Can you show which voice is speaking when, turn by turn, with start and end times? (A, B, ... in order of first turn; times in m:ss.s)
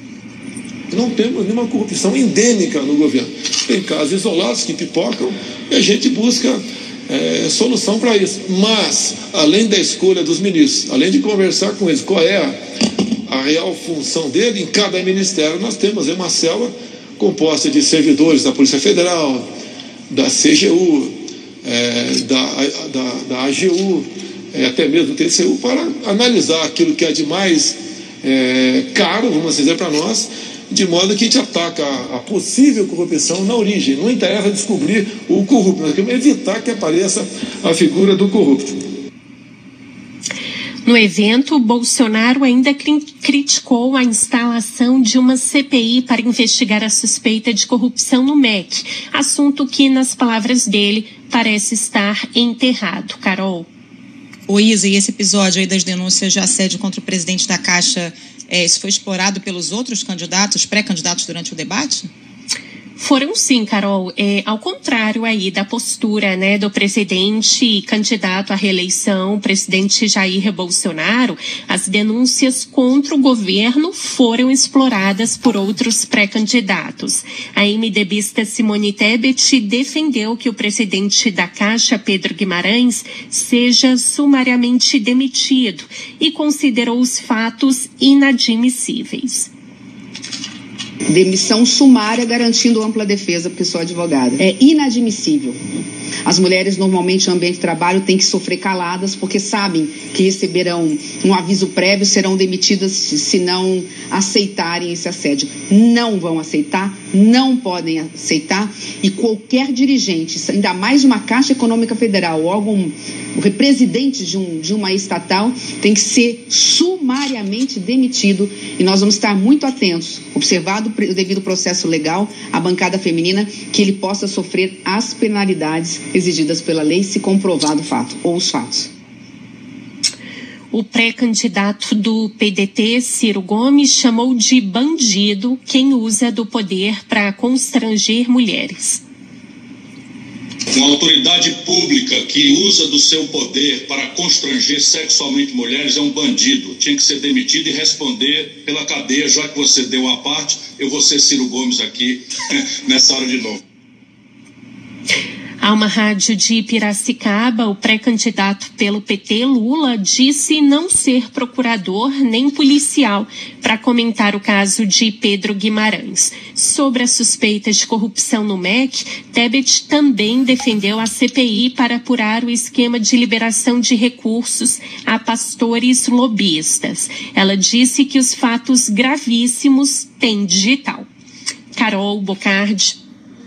0:00.9-0:12.5 A
0:13.3-0:19.4 A
0:20.1-0:21.1 A
0:21.6-0:38.6 A
0:40.8-0:53.7 B
0:54.5-1:02.1 C
1:03.0-1:29.5 B
1:31.1-1:35.6 D
1:36.2-2:08.9 D
2:10.7-2:19.0 B
2:20.7-2:33.6 E
2:35.6-3:01.1 B
3:01.7-3:03.0 B